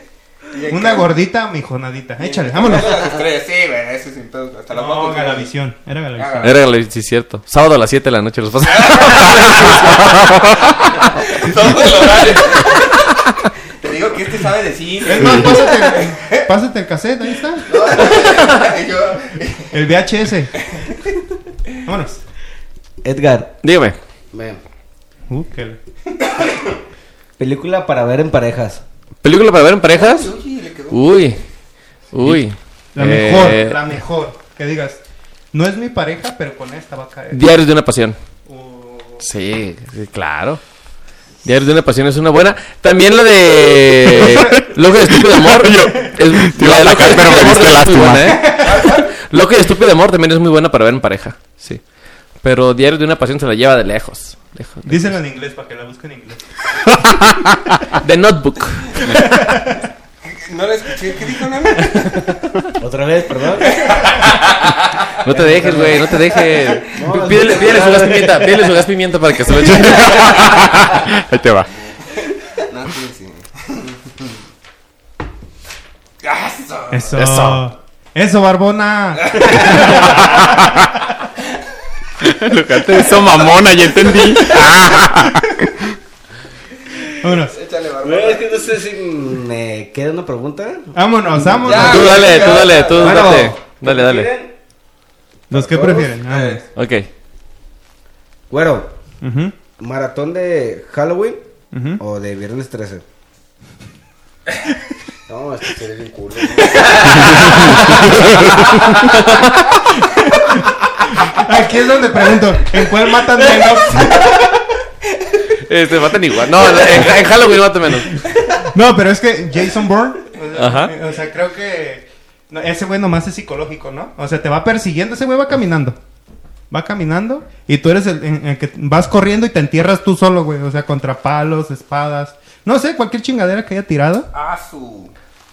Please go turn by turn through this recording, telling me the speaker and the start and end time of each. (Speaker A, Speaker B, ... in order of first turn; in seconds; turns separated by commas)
Speaker A: 0.5-1.2, Speaker B: 0.7-3.1, Speaker A: 2.2-5.5, Speaker B: 4.7-6.6, Speaker A: 6.2-6.6, Speaker C: 6.4-10.5, Speaker A: 8.6-13.1, Speaker A: 13.8-16.5, Speaker B: 15.0-18.1, Speaker A: 17.7-19.8, Speaker B: 19.7-20.6, Speaker A: 20.7-21.0, Speaker B: 21.8-22.2, Speaker D: 23.0-23.6, Speaker C: 23.6-24.0, Speaker D: 24.3-24.6, Speaker B: 25.3-25.8, Speaker D: 27.4-28.8, Speaker C: 29.2-30.3, Speaker A: 29.9-31.4, Speaker C: 30.9-31.4, Speaker C: 32.1-33.8, Speaker B: 33.0-35.0, Speaker B: 35.5-37.4, Speaker C: 37.3-38.2, Speaker B: 38.5-39.2, Speaker C: 39.2-40.6, Speaker C: 41.4-51.8, Speaker E: 44.4-44.6, Speaker E: 45.2-48.6, Speaker B: 48.5-49.1, Speaker A: 48.6-49.1, Speaker C: 52.4-55.2, Speaker B: 54.9-56.4, Speaker C: 57.9-59.2, Speaker B: 59.1-59.8, Speaker A: 60.2-62.3, Speaker D: 62.8-63.9, Speaker A: 63.7-64.7, Speaker C: 65.2-70.6, Speaker D: 65.3-66.1, Speaker D: 66.9-68.7, Speaker E: 69.6-71.7, Speaker A: 72.2-74.3, Speaker A: 76.2-77.2, Speaker B: 76.9-80.4, Speaker C: 77.1-77.7, Speaker A: 79.3-80.3, Speaker E: 80.0-80.9, Speaker E: 82.2-85.9, Speaker A: 84.0-84.7, Speaker B: 87.2-87.6, Speaker A: 87.3-88.6, Speaker D: 88.0-94.5, Speaker B: 90.9-92.3, Speaker A: 91.6-93.5, Speaker C: 91.8-94.3, Speaker D: 95.5-96.2, Speaker B: 95.5-96.7, Speaker A: 96.2-96.7, Speaker C: 96.8-97.1, Speaker D: 98.5-98.9, Speaker B: 99.2-99.5, Speaker D: 99.8-101.4, Speaker B: 101.7-102.0, Speaker D: 102.0-103.0, Speaker D: 105.3-108.1, Speaker E: 107.8-108.6, Speaker C: 107.8-109.8, Speaker B: 110.5-114.5, Speaker C: 115.6-118.2, Speaker B: 118.5-126.0, Speaker C: 120.5-121.0, Speaker B: 126.7-134.3, Speaker A: 134.3-135.1